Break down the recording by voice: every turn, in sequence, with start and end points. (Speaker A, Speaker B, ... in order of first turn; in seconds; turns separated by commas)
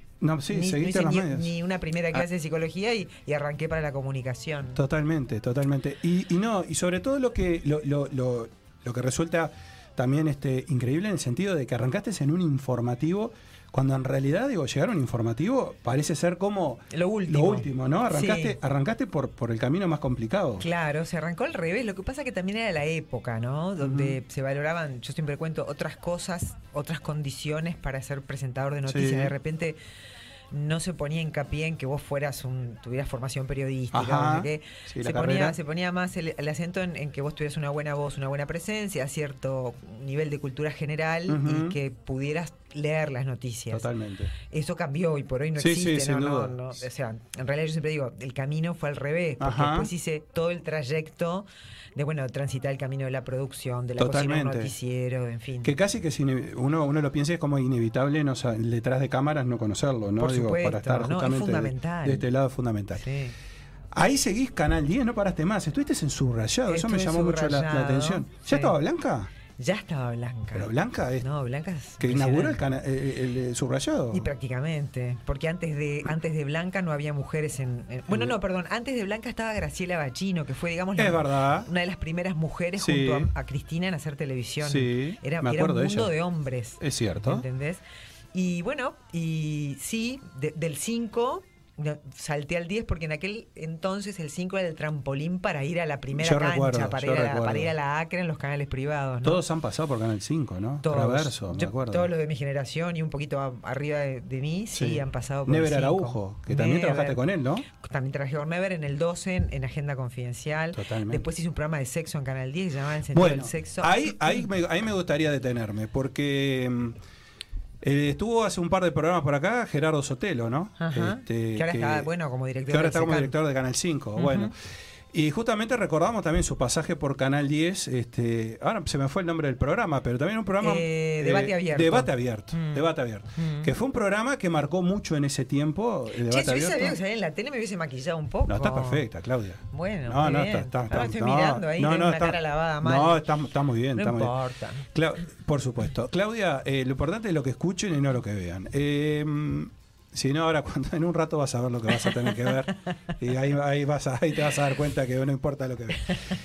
Speaker A: 0.2-1.5, Speaker B: 0.5-4.8, Speaker A: 4.7-20.6, Speaker B: 16.9-18.6, Speaker B: 20.6-29.8, Speaker A: 23.8-24.2, Speaker A: 28.9-29.3, Speaker B: 30.5-43.9, Speaker A: 33.9-35.6, Speaker A: 41.3-41.8, Speaker A: 43.7-44.3, Speaker B: 44.5-55.7, Speaker A: 45.6-46.6, Speaker A: 49.4-49.9, Speaker A: 54.0-54.7, Speaker A: 55.6-63.1, Speaker B: 60.2-62.3, Speaker B: 63.0-63.3, Speaker A: 63.9-69.3, Speaker B: 66.7-68.7, Speaker B: 69.6-72.6, Speaker A: 70.5-71.3, Speaker A: 72.0-74.3, Speaker B: 74.1-87.8, Speaker A: 78.1-78.3, Speaker A: 81.0-81.7, Speaker A: 82.8-83.3, Speaker A: 84.6-86.1, Speaker A: 86.8-87.4, Speaker B: 88.3-99.4, Speaker A: 96.1-97.7, Speaker A: 99.2-102.1, Speaker B: 100.8-114.4, Speaker A: 104.7-107.7, Speaker A: 110.7-111.2, Speaker A: 113.1-117.0, Speaker A: 117.8-122.1, Speaker B: 120.8-123.3, Speaker A: 122.7-124.5, Speaker B: 124.2-124.5, Speaker A: 125.1-137.0, Speaker B: 130.6-133.7, Speaker B: 136.2-139.0, Speaker A: 138.4-144.3, Speaker B: 139.7-143.2, Speaker B: 143.9-144.8, Speaker A: 144.9-156.2